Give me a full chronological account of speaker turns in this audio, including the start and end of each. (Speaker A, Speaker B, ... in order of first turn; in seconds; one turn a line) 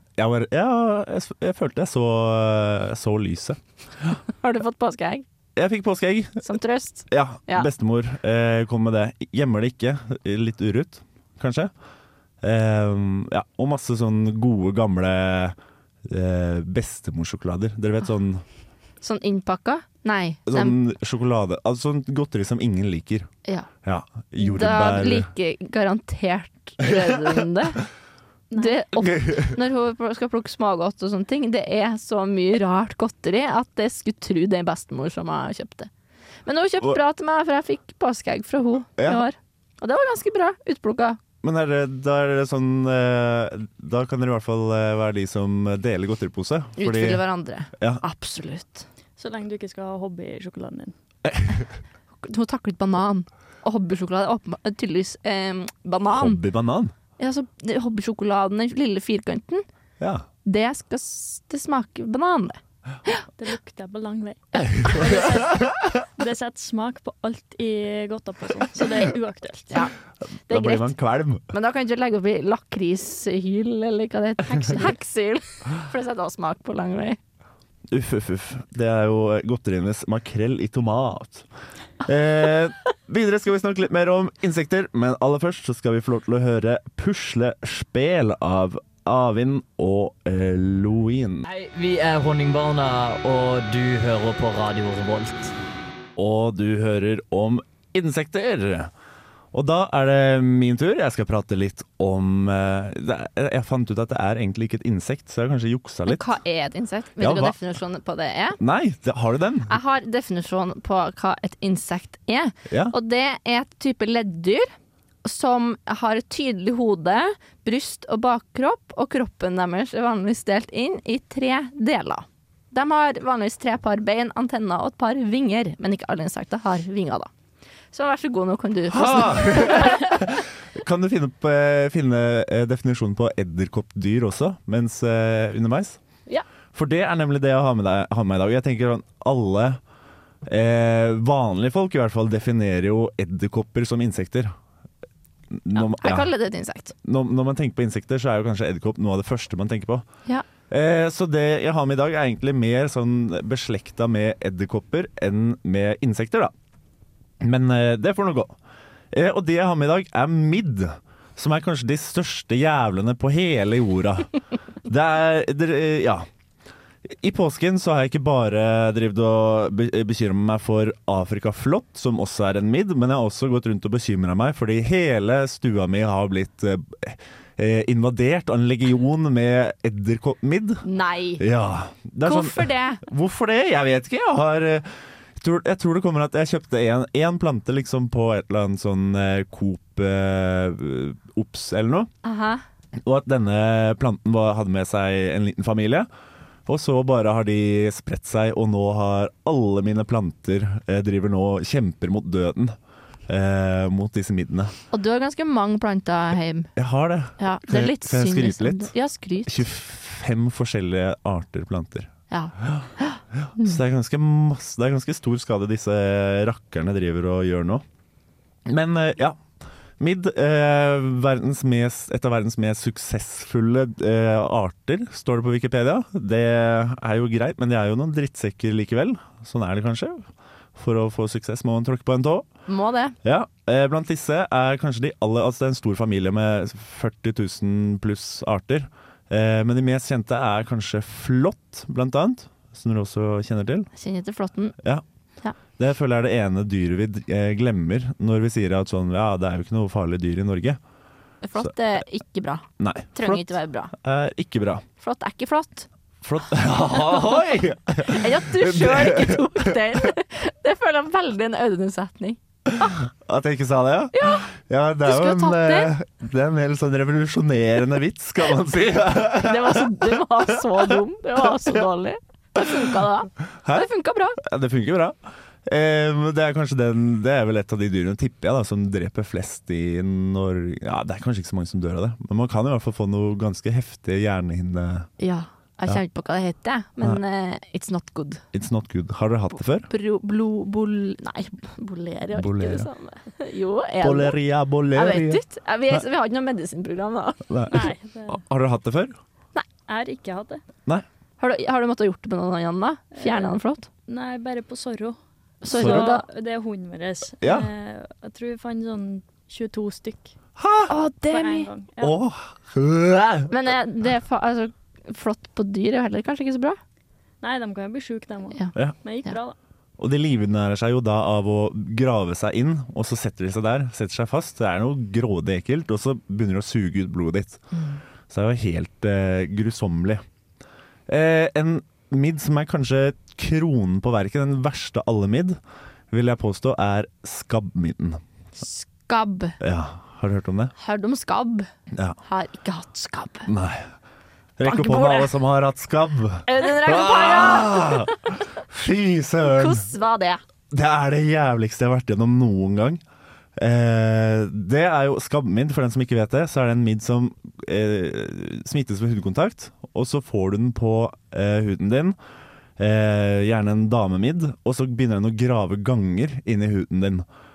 Speaker A: 0.2-4.2
Speaker B: 4.4-5.2
Speaker A: 5.5-6.5
Speaker B: 6.4-7.7
Speaker A: 7.1-11.7
Speaker A: 12.4-18.4
Speaker B: 19.0-20.8
Speaker A: 20.5-23.3
Speaker A: 23.8-25.3
Speaker B: 24.4-27.8
Speaker A: 26.9-27.2
Speaker C: 28.5-28.8
Speaker B: 28.6-35.9
Speaker A: 29.0-29.5
Speaker B: 36.5-41.2
Speaker A: 39.0-39.2
Speaker A: 41.4-47.2
Speaker B: 46.8-48.8
Speaker C: 49.2-50.9
Speaker A: 51.2-51.7
Speaker B: 52.2-56.4
Speaker A: 56.1-56.9
Speaker B: 57.2-59.6
Speaker A: 60.0-60.2
Speaker B: 60.4-63.2
Speaker C: 63.4-69.8
Speaker A: 64.6-65.7
Speaker B: 70.5-70.9
Speaker A: 70.5-71.4
Speaker B: 71.5-77.2
Speaker A: 77.9-81.5
Speaker A: 82.0-91.5
Speaker D: 91.5-95.5
Speaker A: 96.2-98.9
Speaker A: 99.5-106.3
Speaker B: 106.1-108.6
Speaker A: 107.2-107.6
Speaker A: 108.6-109.8
Speaker B: 109.7-114.7
Speaker A: 112.7-112.9
Speaker B: 115.2-127.3
Speaker B: 127.9-130.1
Speaker A: 128.9-136.0
Speaker A: 136.7-139.8
Speaker A: 140.4-144.5
Speaker A: 145.5-146.3
Speaker B: 145.7-146.9
Speaker A: 147.0-150.1
Speaker A: 150.7-156.5
Speaker A: 157.4-158.5
Speaker A: 159.1-164.3
Speaker A: 164.8-166.2
Speaker A: 167.1-180.8
Speaker B: 180.8-181.4
Speaker A: 181.4-192.1
Speaker B: 182.2-183.0
Speaker B: 192.2-192.6
Speaker A: 193.0-196.1
Speaker A: 196.7-204.7
Speaker B: 204.9-206.7
Speaker A: 206.8-208.9
Speaker B: 207.4-209.6
Speaker A: 209.4-212.1
Speaker B: 212.3-213.8
Speaker A: 212.6-212.9
Speaker A: 213.4-217.8
Speaker A: 218.7-219.4
Speaker A: 220.0-232.5
Speaker B: 232.7-233.2
Speaker A: 233.2-243.9
Speaker B: 243.9-244.7
Speaker A: 245.8-250.8
Speaker B: 251.4-253.9
Speaker A: 252.8-254.8
Speaker B: 255.0-255.9
Speaker A: 256.2-259.8
Speaker B: 258.0-263.0
Speaker A: 262.8-270.2
Speaker B: 264.1-264.5
Speaker B: 265.0-265.9
Speaker B: 269.4-274.4
Speaker A: 273.6-285.1
Speaker B: 285.2-288.4
Speaker A: 288.5-289.9
Speaker B: 289.9-294.4
Speaker A: 292.3-292.9
Speaker A: 294.0-296.0
Speaker B: 294.9-297.4
Speaker A: 297.5-299.2
Speaker C: 297.7-298.4
Speaker C: 299.9-300.6
Speaker B: 301.4-303.9
Speaker C: 303.1-303.6
Speaker C: 304.1-310.3
Speaker B: 305.6-306.2
Speaker A: 305.7-306.1
Speaker A: 307.4-307.7
Speaker A: 310.6-310.9
Speaker B: 310.9-311.7
Speaker C: 311.3-312.1
Speaker A: 312.0-313.5
Speaker B: 313.5-316.8
Speaker C: 317.4-319.6
Speaker A: 320.0-327.7
Speaker A: 328.3-330.2
Speaker A: 331.1-335.6
Speaker A: 336.1-338.2
Speaker B: 338.6-339.6
Speaker A: 339.6-340.7
Speaker B: 340.8-341.7
Speaker A: 341.9-342.2
Speaker B: 342.2-343.5
Speaker A: 343.4-343.9
Speaker A: 344.6-349.9
Speaker B: 344.6-345.3
Speaker B: 346.4-348.2
Speaker B: 349.4-350.4
Speaker A: 350.7-353.0
Speaker A: 353.6-362.1
Speaker A: 362.8-367.2